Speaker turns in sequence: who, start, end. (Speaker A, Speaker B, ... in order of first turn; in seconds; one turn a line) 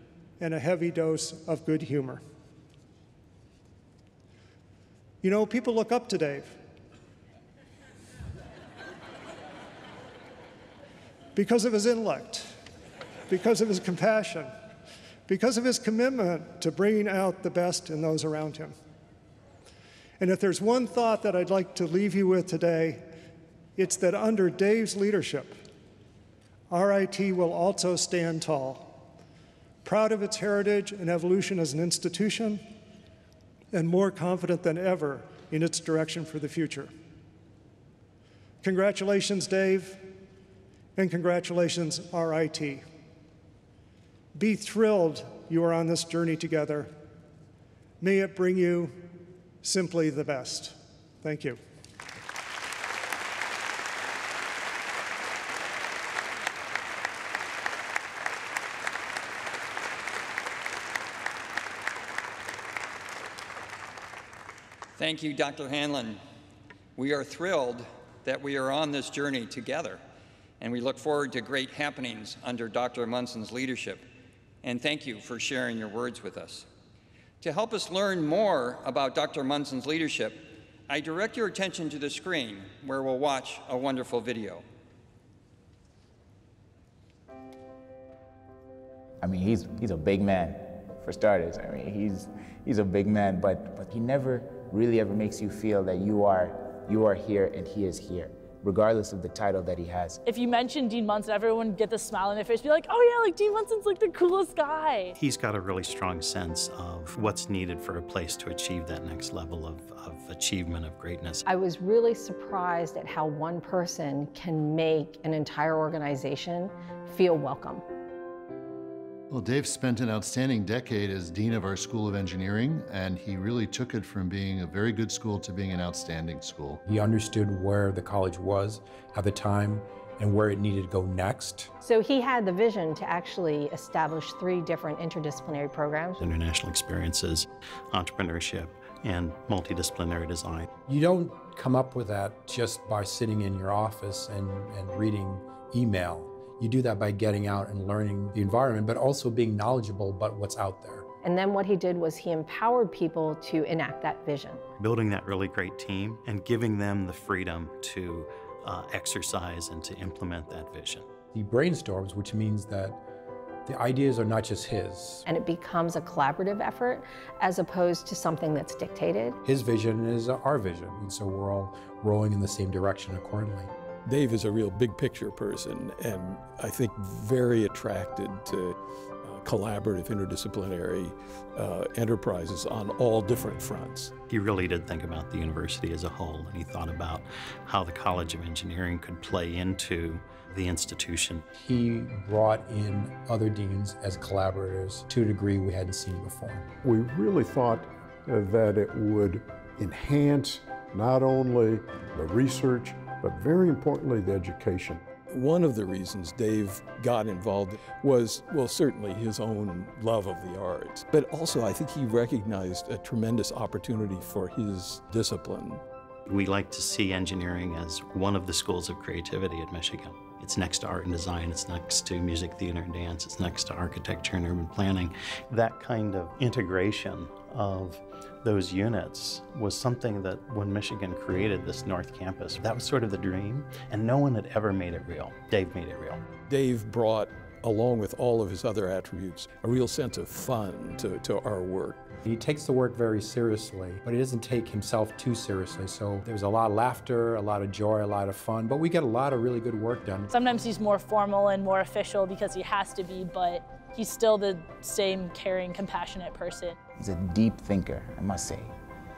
Speaker A: 0.4-2.2
Speaker A: 5.2-6.6
Speaker A: 11.3-12.6
Speaker A: 13.3-14.5
Speaker A: 15.3-18.7
Speaker A: 20.2-23.0
Speaker A: 23.8-25.6
Speaker A: 26.7-28.9
Speaker A: 29.8-32.6
Speaker A: 33.7-36.9
Speaker A: 38.6-40.1
Speaker A: 41.0-42.8
Speaker A: 44.3-46.9
Speaker A: 48.0-49.1
Speaker A: 49.6-51.6
Speaker B: 65.0-66.2
Speaker B: 67.0-70.0
Speaker B: 70.6-74.0
Speaker B: 74.6-76.7
Speaker B: 77.4-84.6
Speaker C: 89.2-100.2
Speaker D: 100.2-105.1
Speaker E: 105.2-111.5
Speaker F: 111.5-117.8
Speaker G: 119.3-126.8
Speaker H: 126.8-131.7
Speaker F: 131.8-136.3
Speaker E: 136.2-140.7
Speaker H: 140.9-151.1
Speaker F: 151.2-154.6
Speaker E: 154.8-161.1
Speaker H: 161.3-163.0
Speaker H: 163.7-165.2
Speaker F: 165.2-169.4
Speaker H: 169.4-173.7
Speaker I: 174.0-184.1
Speaker E: 184.3-191.4
Speaker H: 191.6-196.7
Speaker J: 196.8-205.1
Speaker I: 205.2-215.8
Speaker E: 216.3-236.2
Speaker I: 236.4-242.1
Speaker H: 242.2-250.3
Speaker D: 250.3-256.8
Speaker C: 257.0-258.8